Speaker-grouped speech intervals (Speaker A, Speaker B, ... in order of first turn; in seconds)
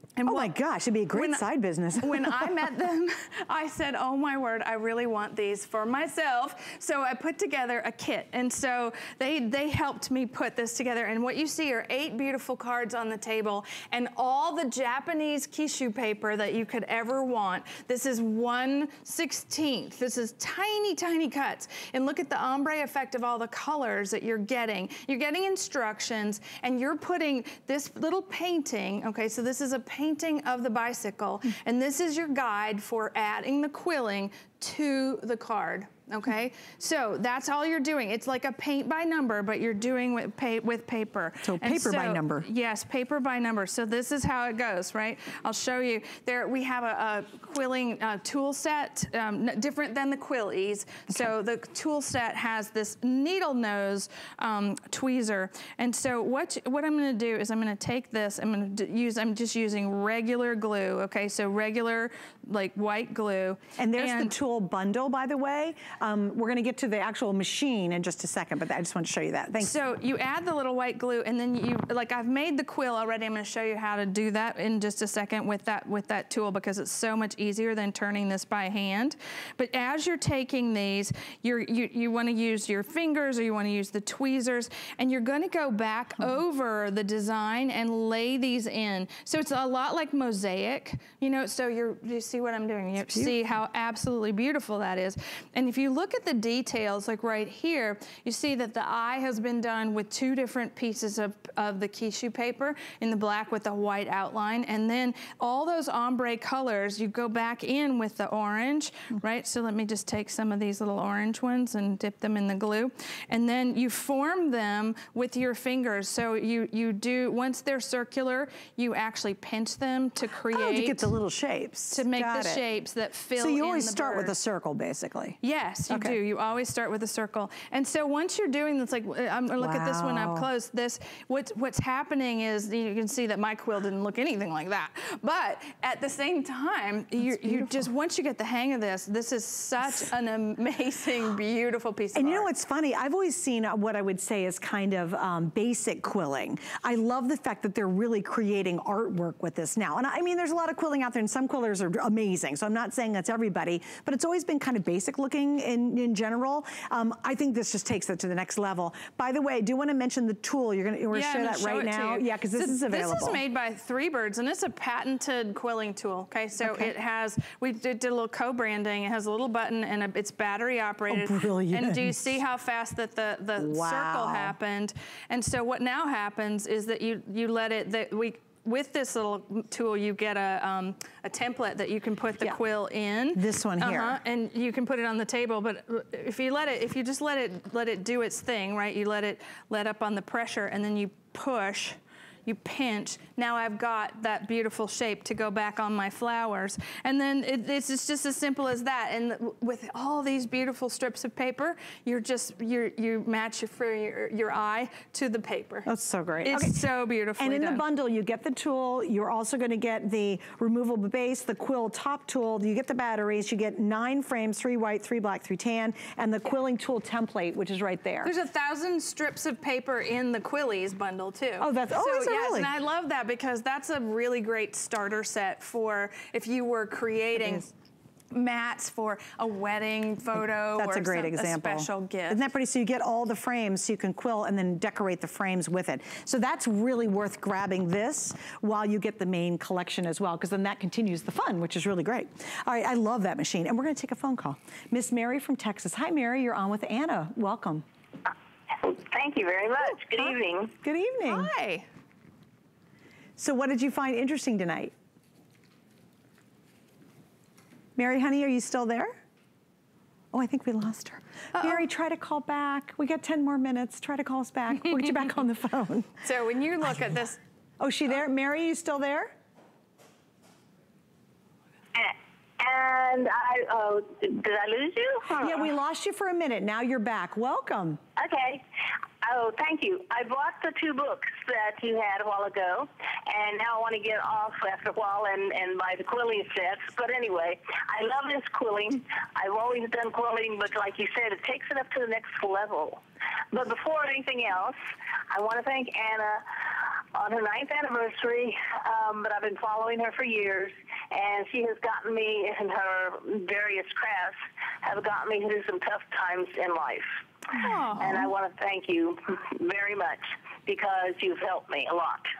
Speaker A: 0.2-0.5, 1.1-1.4, 2.0-64.3, 69.6-121.1, 121.9-124.4, 125.4-142.5, 161.1-205.9, 206.4-207.8, 218.2-227.7, 228.3-232.4, 251.2-251.9, 266.2-267.4, 307.5-308.3
Speaker B: 0.2-2.7, 41.4-42.5, 63.8-69.7, 120.5-122.6, 123.3-125.4, 125.9-126.2, 129.6-130.5, 137.3-137.8, 142.1-163.4, 166.6-166.9, 171.1-172.4, 173.6-174.5, 183.3-184.2, 205.8-206.8, 207.4-218.3, 221.6-222.7, 230.7-247.8, 250.0-251.5, 253.4-254.9, 258.0-259.2, 260.3-266.2, 267.8-269.3, 275.3-278.0
Speaker C: 248.8-250.7, 271.9-275.7, 278.2-278.6, 279.2-293.0, 293.5-294.8, 295.3-307.1, 308.0-312.3